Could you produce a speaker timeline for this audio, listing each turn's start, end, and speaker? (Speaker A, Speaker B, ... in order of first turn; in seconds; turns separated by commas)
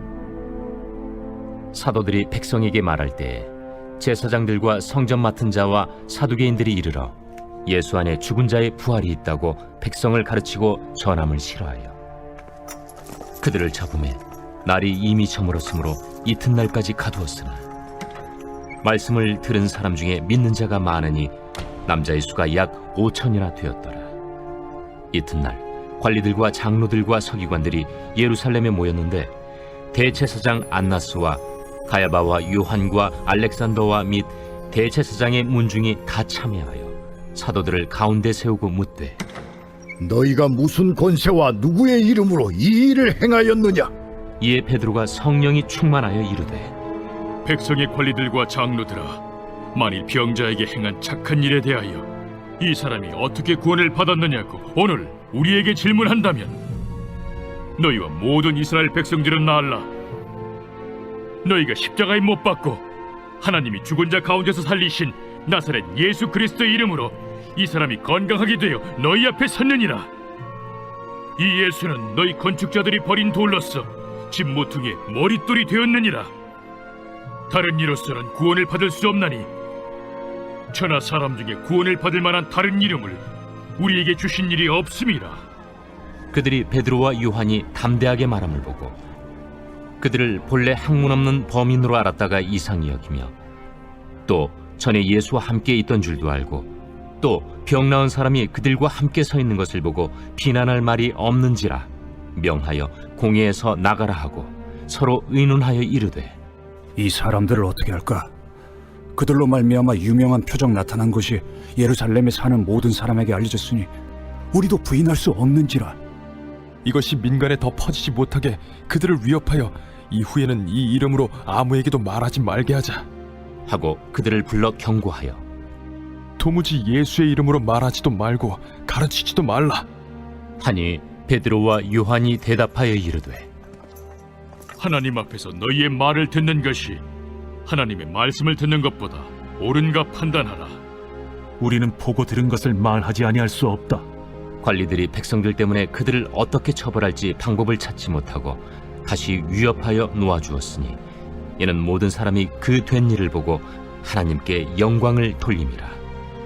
Speaker A: 1.7-7.2, Speaker A: 7.7-12.0, Speaker A: 13.4-17.6, Speaker A: 18.8-21.3, Speaker A: 21.9-24.1, Speaker A: 25.1-29.3, Speaker A: 29.9-39.2, Speaker B: 40.0-43.9, Speaker A: 44.4-46.7, Speaker C: 47.5-49.2, Speaker C: 49.7-52.1, Speaker C: 52.6-56.6, Speaker C: 57.8-59.9, Speaker C: 61.4-62.8, Speaker C: 63.4-70.1, Speaker C: 71.4-76.3, Speaker C: 77.5-79.5, Speaker C: 80.7-83.2, Speaker C: 83.8-85.4, Speaker A: 86.3-89.0, Speaker A: 90.0-93.3, Speaker A: 94.3-96.7, Speaker A: 97.2-106.4, Speaker D: 107.0-108.3, Speaker D: 109.2-113.9, Speaker D: 114.5-116.0, Speaker E: 116.8-123.0, Speaker A: 123.7-125.4, Speaker E: 126.4-129.9, Speaker A: 130.6-133.5, Speaker C: 134.8-137.0, Speaker C: 137.7-140.8, Speaker F: 141.6-144.1, Speaker A: 144.6-151.0, Speaker A: 151.6-156.0